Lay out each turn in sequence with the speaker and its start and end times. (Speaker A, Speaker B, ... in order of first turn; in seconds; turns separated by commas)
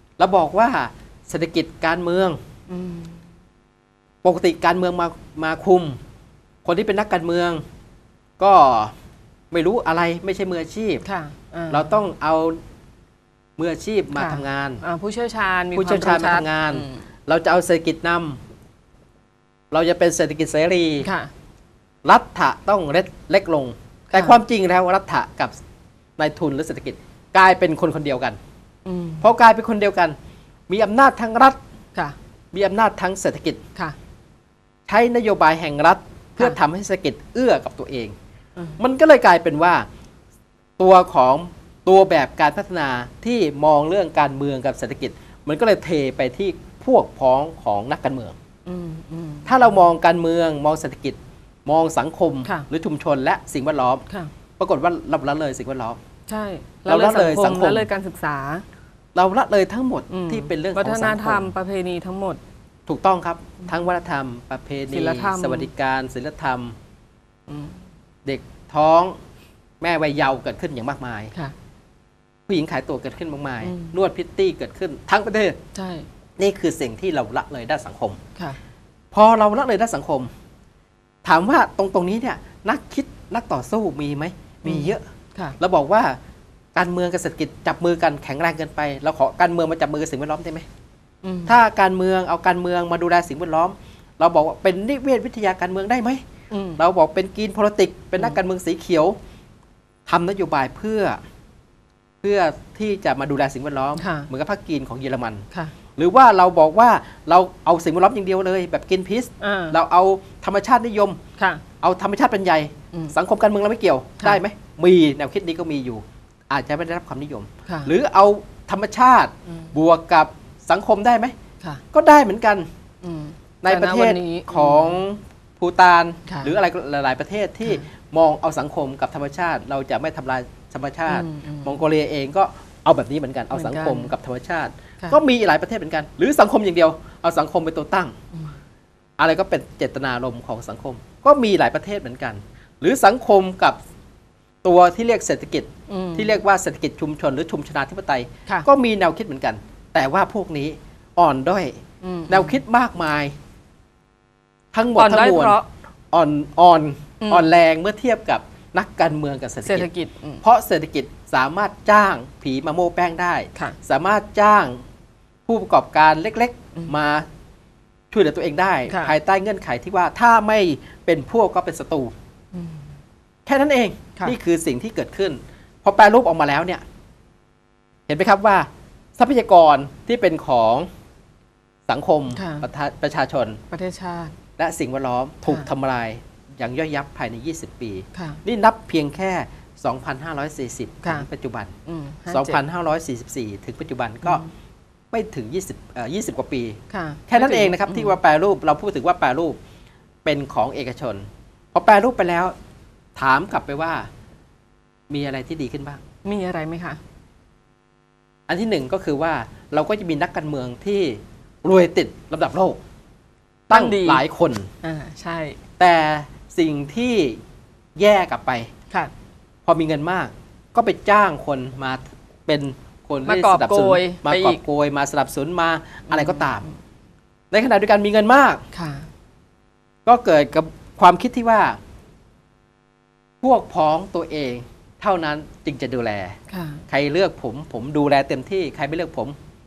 Speaker A: 0.2-2.4, Speaker B: 2.7-3.2, Speaker A: 4.2-6.0, Speaker A: 6.6-7.6, Speaker A: 8.4-8.9, Speaker A: 9.5-11.0, Speaker B: 11.0-11.9, Speaker A: 11.7-12.6, Speaker A: 13.6-14.8, Speaker B: 14.1-17.0, Speaker A: 15.7-18.4, Speaker A: 19.7-21.1, Speaker B: 21.0-21.3, Speaker A: 22.0-25.6, Speaker B: 24.1-24.4, Speaker A: 26.2-28.4, Speaker B: 28.9-29.3, Speaker A: 29.2-30.1, Speaker A: 30.7-31.6, Speaker A: 32.5-33.6, Speaker A: 34.9-38.1, Speaker A: 38.8-39.9, Speaker A: 40.8-48.4, Speaker B: 48.6-49.6, Speaker A: 49.5-54.0, Speaker A: 54.6-56.0, Speaker B: 56.3-58.6, Speaker A: 56.9-57.9, Speaker A: 59.1-61.5, Speaker B: 60.1-62.4, Speaker A: 62.9-66.7, Speaker B: 64.9-65.7, Speaker B: 67.5-67.8, Speaker A: 68.2-69.2, Speaker A: 69.8-71.3, Speaker A: 72.5-75.6, Speaker B: 73.6-73.9, Speaker B: 75.7-76.1, Speaker A: 76.4-78.2, Speaker A: 79.1-80.3, Speaker A: 81.2-85.0, Speaker B: 84.6-85.6, Speaker A: 85.6-86.2, Speaker A: 86.7-90.7, Speaker B: 91.2-91.6, Speaker A: 91.5-96.2, Speaker B: 96.5-96.8, Speaker A: 96.8-99.2, Speaker A: 100.1-101.2, Speaker A: 102.2-105.5, Speaker B: 104.0-104.3, Speaker A: 106.0-111.2, Speaker B: 109.4-109.8, Speaker B: 111.4-111.6, Speaker A: 111.8-121.3, Speaker B: 117.7-117.9, Speaker A: 121.9-122.7, Speaker B: 123.0-125.0, Speaker A: 123.6-138.1, Speaker B: 126.3-126.5, Speaker B: 131.1-131.8, Speaker B: 133.5-134.1, Speaker A: 139.2-143.8, Speaker A: 144.6-153.3, Speaker B: 145.9-146.4, Speaker B: 152.0-152.6, Speaker A: 154.7-155.6, Speaker B: 154.9-155.7, Speaker A: 156.1-159.9, Speaker B: 159.6-160.4, Speaker A: 160.4-164.8, Speaker A: 165.5-167.3, Speaker A: 168.1-172.1, Speaker B: 168.9-169.1, Speaker B: 172.5-172.9, Speaker A: 173.4-176.8, Speaker A: 178.1-180.9, Speaker A: 181.9-183.6, Speaker B: 182.3-182.7, Speaker B: 183.7-184.3, Speaker A: 184.6-191.7, Speaker B: 188.1-188.4, Speaker B: 191.8-192.6, Speaker A: 192.3-194.4, Speaker A: 195.1-199.6, Speaker B: 196.9-198.1, Speaker A: 200.2-202.5, Speaker A: 203.2-204.1, Speaker A: 205.1-206.0, Speaker B: 206.2-207.0, Speaker A: 208.5-212.8, Speaker A: 213.7-214.7, Speaker B: 213.7-214.2, Speaker B: 214.8-215.6, Speaker A: 215.8-217.4, Speaker A: 217.9-218.7, Speaker A: 219.7-226.7, Speaker B: 223.2-224.6, Speaker B: 226.1-226.5, Speaker A: 227.5-228.6, Speaker B: 228.7-229.1, Speaker A: 230.1-231.8, Speaker A: 233.4-236.4, Speaker B: 236.5-236.8, Speaker A: 236.9-239.3